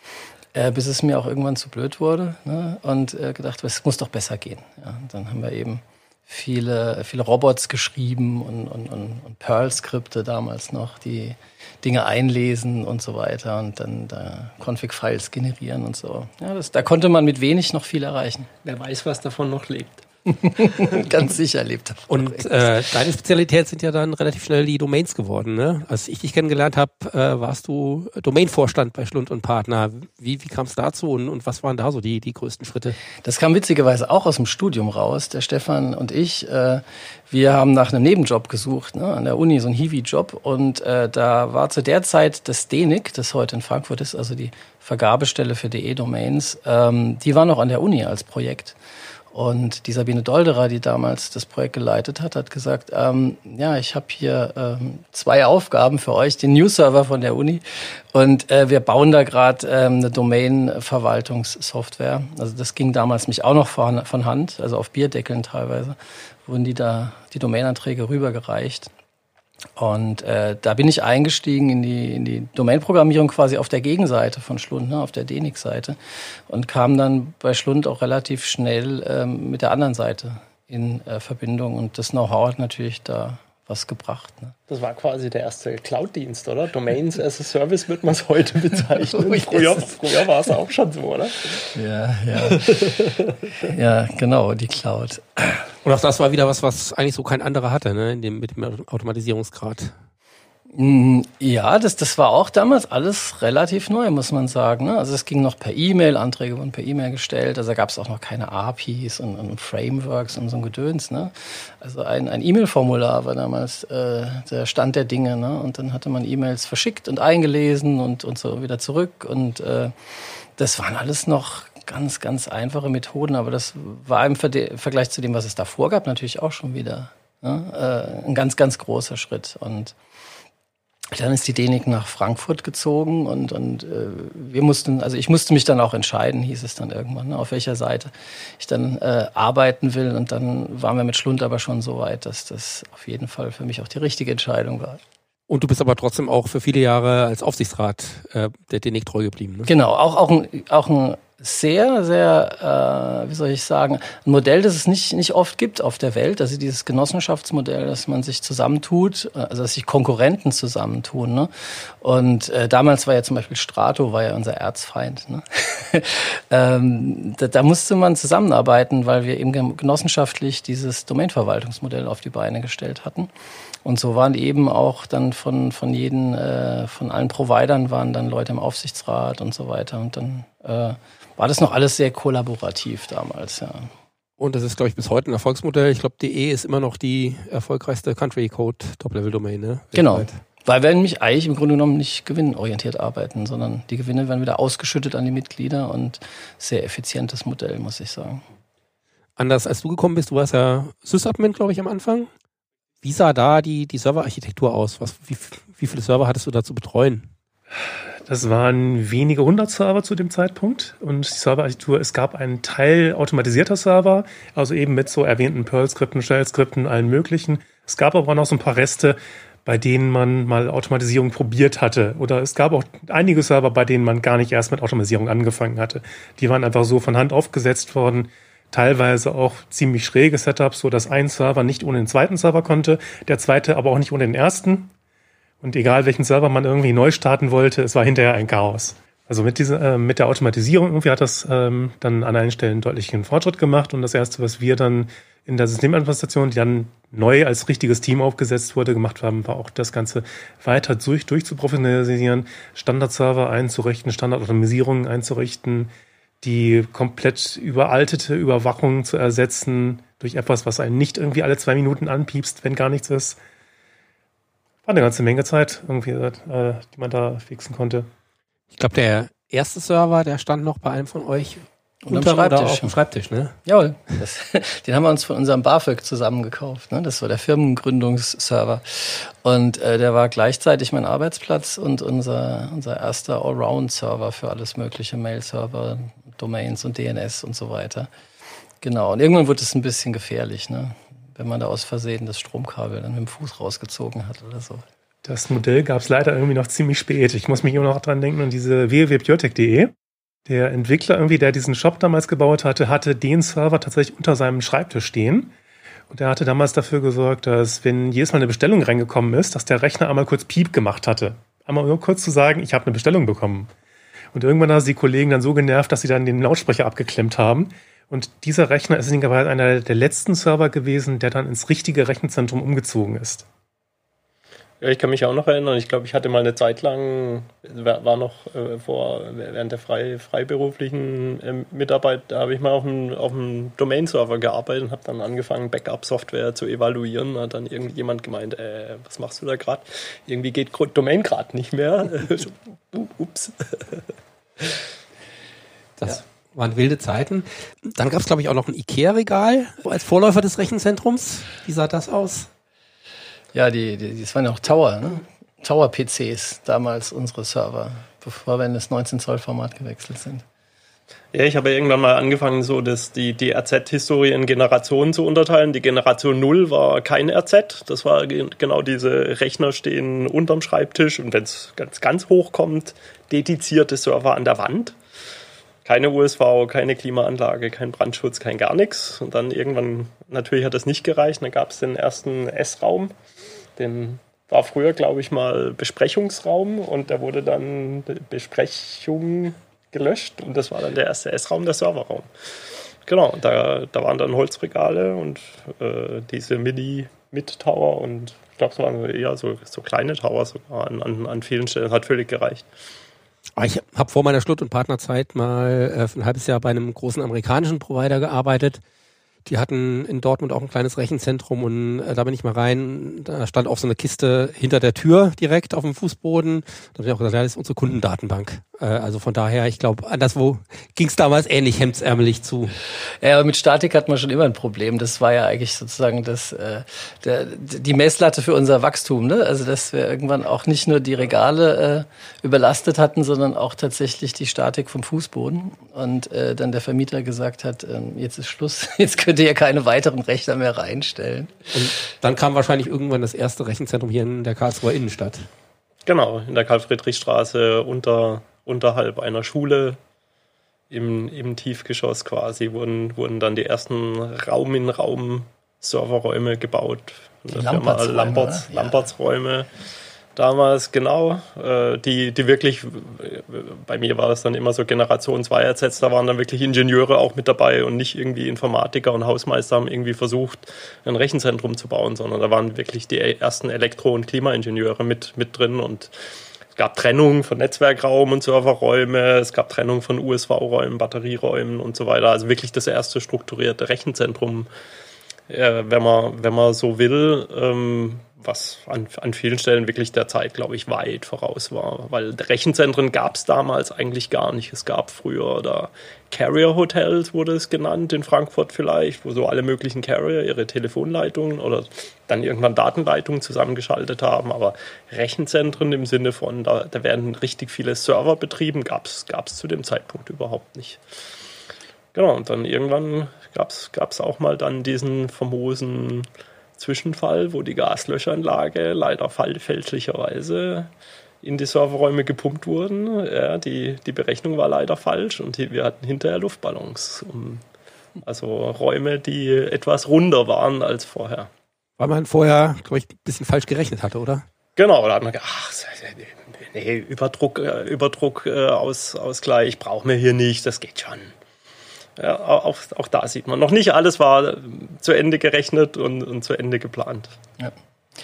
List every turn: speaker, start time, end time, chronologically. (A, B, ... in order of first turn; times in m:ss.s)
0:00.5-0:18.5 A
0:18.6-0:20.0 B
0:20.3-0:22.8 A
0:22.1-0:33.0 C
0:33.2-0:48.8 A
0:49.3-1:08.9 A
1:09.8-1:16.0 A
1:16.5-1:24.6 A
1:24.7-1:31.7 B
1:29.3-1:29.8 A
1:31.7-1:35.7 A
1:32.4-1:33.0 B
1:35.8-1:39.9 C
1:40.7-2:10.0 A
2:11.1-2:25.0 A
2:25.5-2:29.7 C
2:29.7-2:41.5 A
2:42.0-2:53.3 A
2:53.8-3:03.9 A
3:04.4-3:10.4 C
3:09.9-3:18.4 A
3:19.4-3:22.3 C
3:23.0-3:27.3 C
3:28.2-3:54.9 D
3:55.6-4:15.9 D
4:16.4-4:23.4 D
4:24.8-4:28.1 D
4:28.7-4:33.6 C
4:32.0-4:33.0 A
4:33.6-4:48.1 A
4:48.8-4:54.8 A
4:55.2-4:59.9 D
5:00.5-5:05.5 D
5:06.1-5:13.7 D
5:14.3-5:23.5 D
5:24.8-5:44.0 B
5:46.0-5:52.5 C
5:53.5-6:00.4 A
6:01.3-6:15.0 B
6:15.8-6:23.1 B
6:23.8-6:32.3 B
6:33.1-6:42.7 B
6:43.6-6:48.8 C
6:49.4-7:02.7 C
7:03.2-7:21.7 A
7:21.7-7:25.5 C
7:26.1-7:30.0 B
7:30.9-7:39.7 B
7:37.5-7:39.0 A
7:40.4-7:56.1 B
7:56.8-8:04.7 B
8:05.5-8:31.0 B
8:32.1-8:40.9 B
8:41.4-8:47.6 B
8:48.2-8:51.5 B
8:52.0-8:54.4 C
8:54.8-9:01.3 B
9:02.2-9:07.3 B